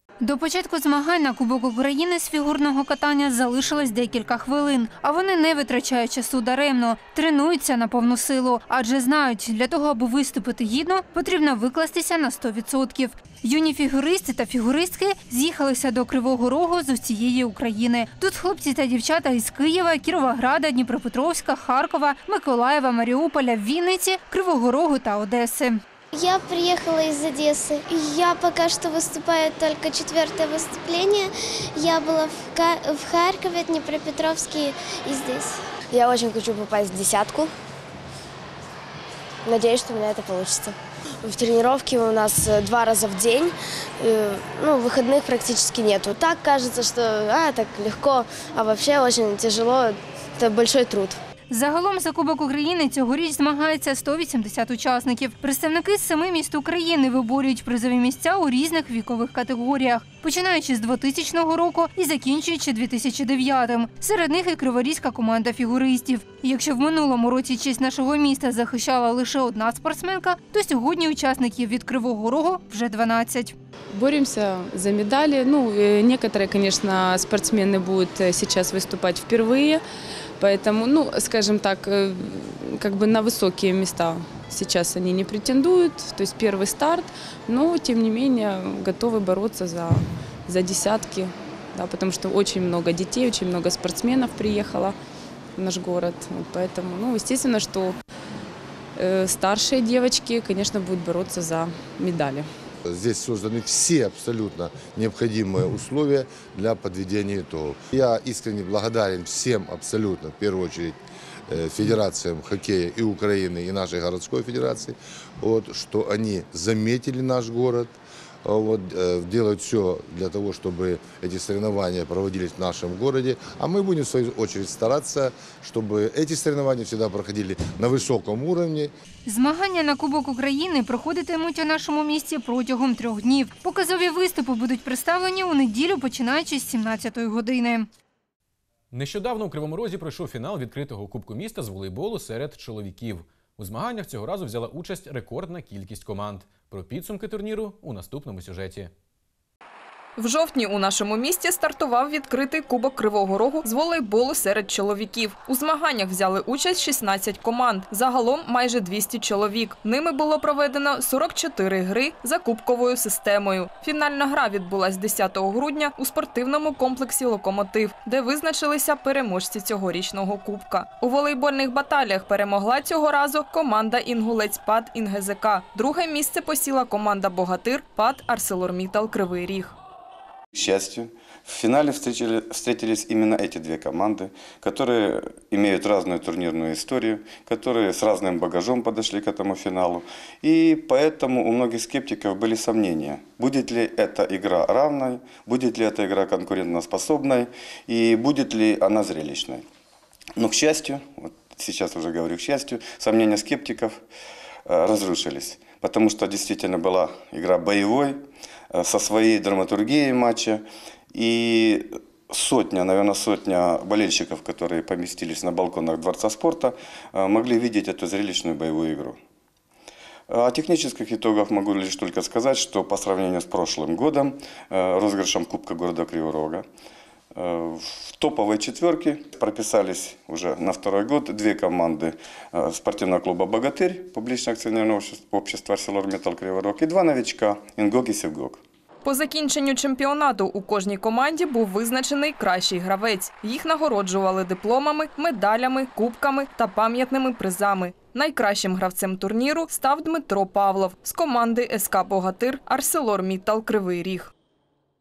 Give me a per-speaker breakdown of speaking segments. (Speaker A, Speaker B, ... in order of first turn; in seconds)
Speaker A: 0.2-25.8, 51.5-73.5, 129.2-137.9
Speaker B: 26.1-35.6
Speaker C: 35.9-37.5, 39.5-51.2
Speaker D: 73.9-79.8, 80.4-95.0, 95.6-98.0, 99.0-102.5
Speaker E: 102.9-128.9
Speaker F: 138.9-148.9
Speaker G: 150.2-179.8, 239.0-254.3
Speaker H: 180.5-199.7, 200.4-204.0, 204.7-208.2, 208.7-210.6, 211.1-219.2, 220.3-226.7, 227.3-238.6